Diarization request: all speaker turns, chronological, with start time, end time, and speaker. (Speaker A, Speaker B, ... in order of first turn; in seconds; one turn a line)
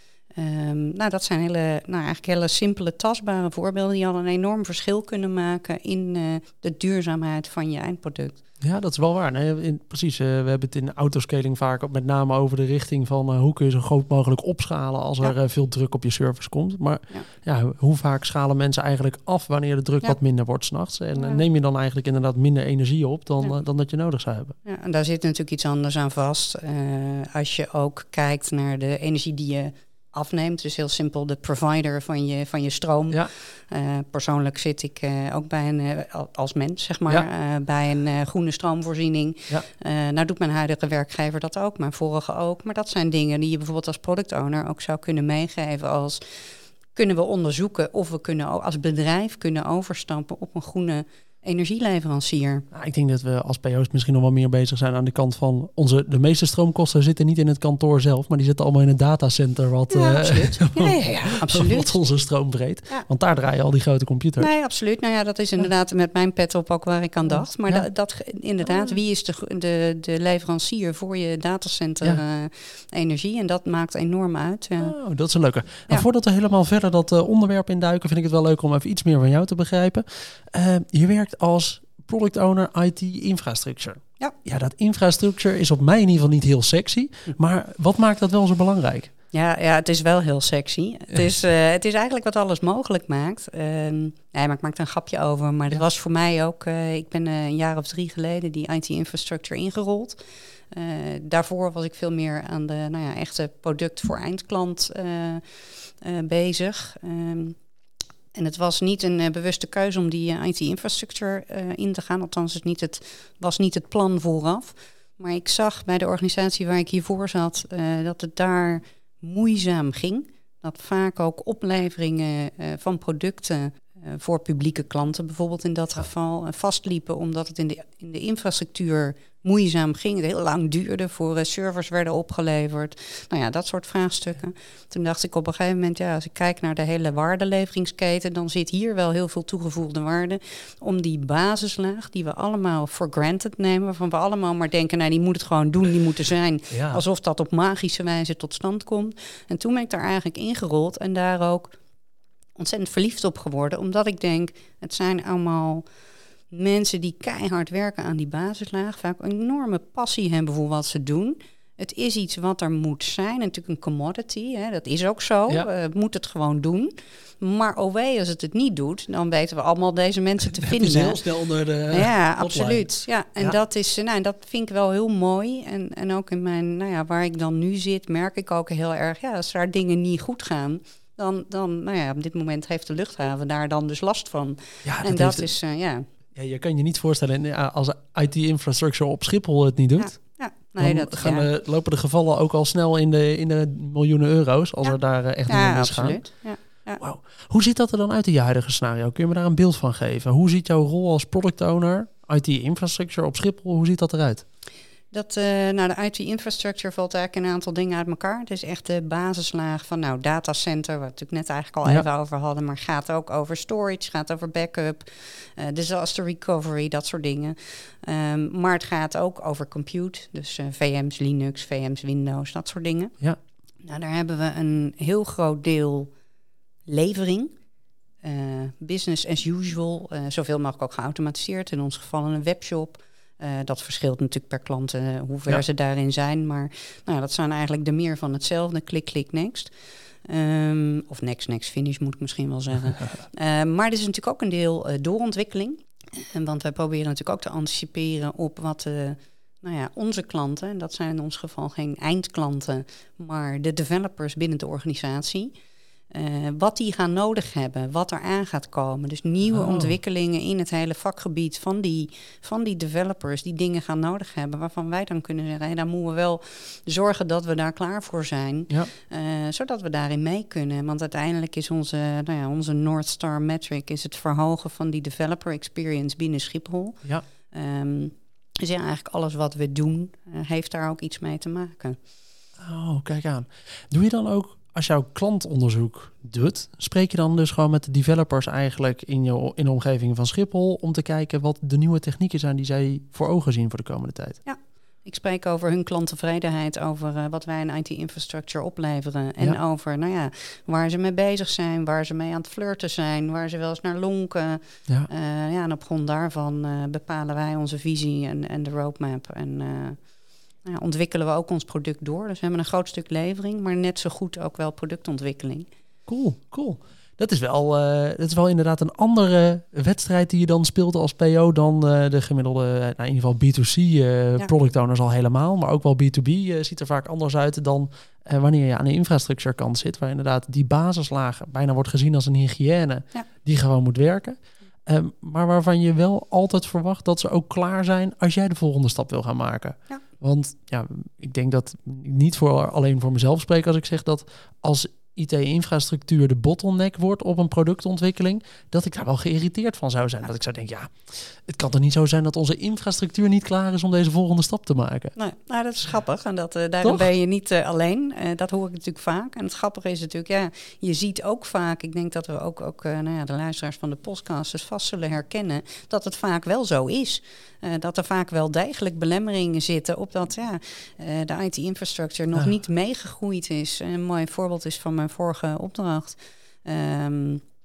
Speaker A: 0.3-8.4
Speaker B: 8.6-24.5
Speaker A: 21.2-21.4
Speaker A: 24.6-52.6
Speaker B: 52.7-64.5
Speaker A: 59.9-61.9
Speaker A: 64.4-74.9
Speaker B: 74.8-89.1
Speaker A: 89.3-107.6
Speaker A: 108.3-151.8
Speaker B: 146.7-147.0
Speaker A: 152.6-155.8
Speaker A: 156.5-171.2
Speaker B: 170.5-173.6
Speaker A: 171.9-186.0
Speaker B: 184.8-185.5
Speaker B: 186.3-190.2
Speaker A: 190.0-191.5
Speaker B: 190.8-196.2
Speaker A: 195.5-197.0
Speaker B: 197.0-204.4
Speaker A: 205.1-223.1
Speaker A: 223.8-226.1
Speaker A: 226.9-227.5
Speaker A: 228.2-239.7
Speaker A: 240.2-255.5
Speaker A: 256.1-282.0
Speaker B: 259.5-259.9
Speaker B: 282.6-294.4
Speaker A: 294.4-310.0
Speaker A: 310.6-315.7
Speaker B: 316.1-355.1
Speaker A: 355.1-377.4